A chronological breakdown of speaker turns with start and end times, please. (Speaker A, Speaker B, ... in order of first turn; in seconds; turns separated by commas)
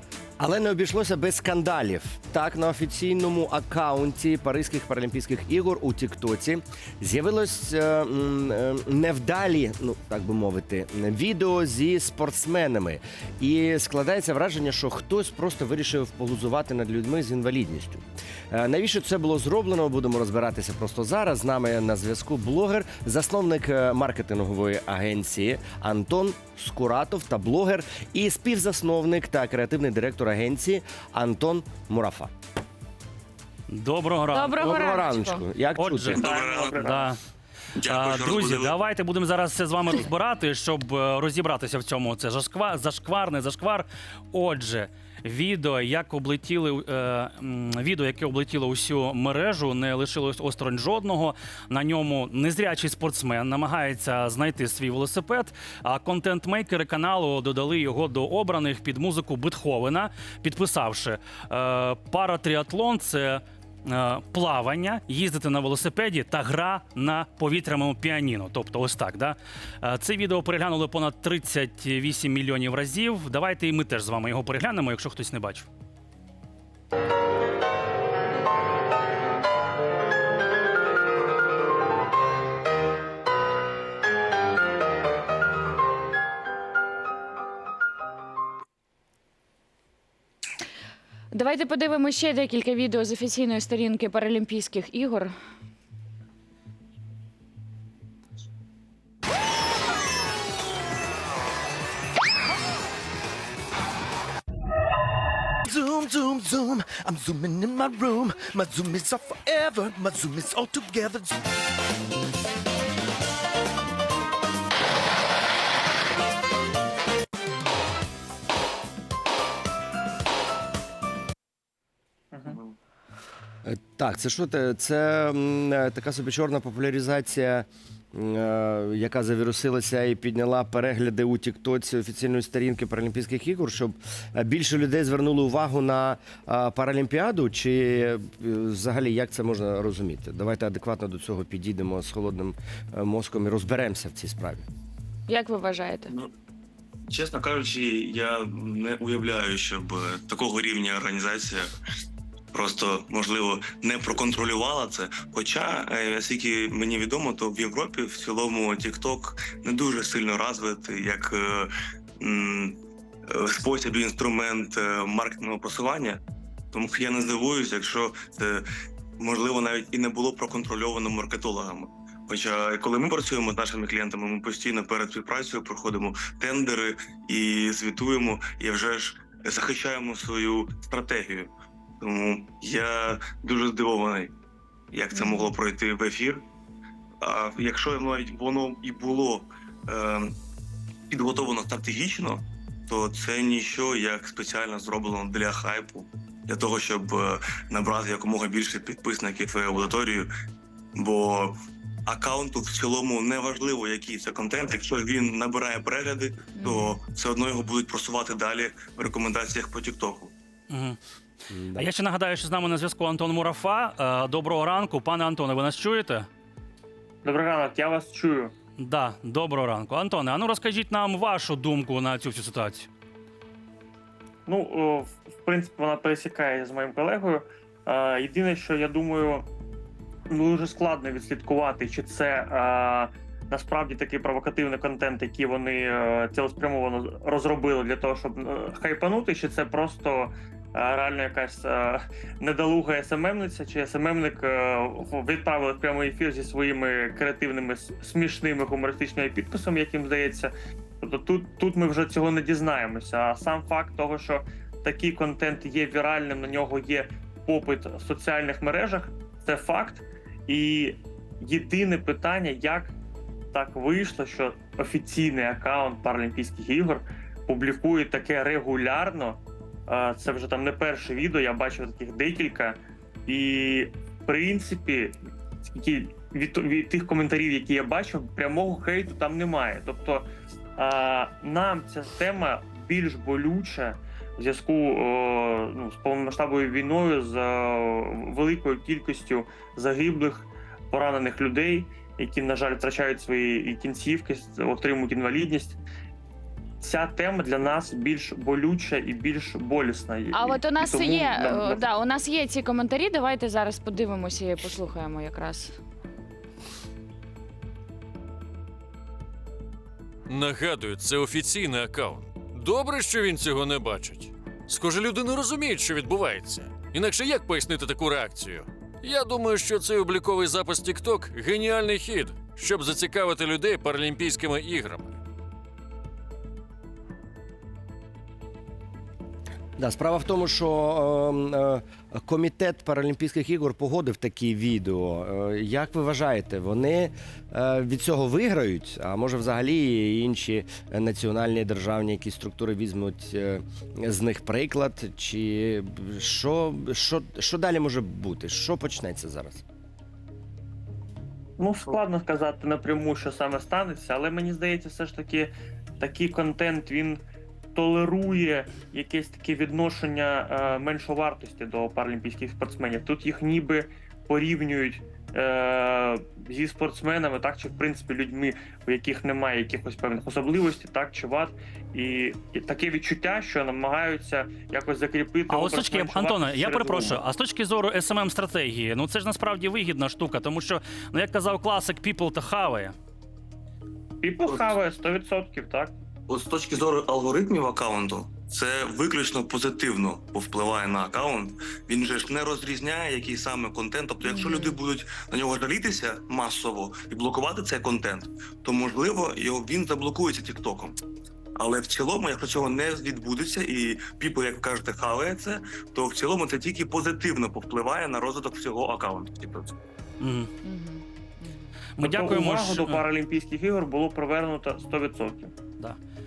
Speaker A: 0.4-32.3, Speaker B: 33.7-34.6, Speaker C: 34.3-35.4, Speaker A: 34.6-36.2, Speaker B: 35.7-37.2, Speaker D: 36.1-36.9, Speaker E: 36.2-37.1, Speaker D: 37.8-38.8, Speaker B: 37.8-75.7, Speaker C: 91.3-95.3, Speaker F: 105.7-111.4, Speaker E: 122.3-122.6, Speaker A: 123.6-144.6, Speaker C: 145.3-146.1, Speaker D: 147.1-151.7, Speaker D: 152.5-168.6, Speaker D: 169.2-184.3, Speaker D: 184.9-186.4, Speaker C: 185.1-185.5, Speaker D: 187.2-190.3, Speaker D: 191.1-200.3, Speaker D: 200.9-201.5, Speaker D: 202.1-210.3, Speaker C: 206.6-207.0, Speaker B: 210.7-211.0, Speaker A: 211.5-211.9, Speaker B: 211.7-216.3, Speaker E: 217.2-218.5, Speaker B: 218.8-222.9, Speaker E: 224.4-229.5, Speaker E: 230.3-263.0, Speaker E: 263.5-295.8, Speaker E: 296.8-301.9, Speaker C: 300.3-305.8, Speaker G: 310.3-325.2, Speaker A: 329.8-349.6, Speaker E: 351.6-357.2, Speaker E: 357.7-377.2, Speaker B: 375.5-382.9, Speaker E: 384.2-385.9, Speaker D: 384.4-384.8, Speaker D: 386.3-401.0, Speaker D: 401.6-409.7, Speaker B: 410.2-410.5, Speaker C: 410.6-411.7, Speaker B: 412.0-413.0, Speaker E: 412.0-415.5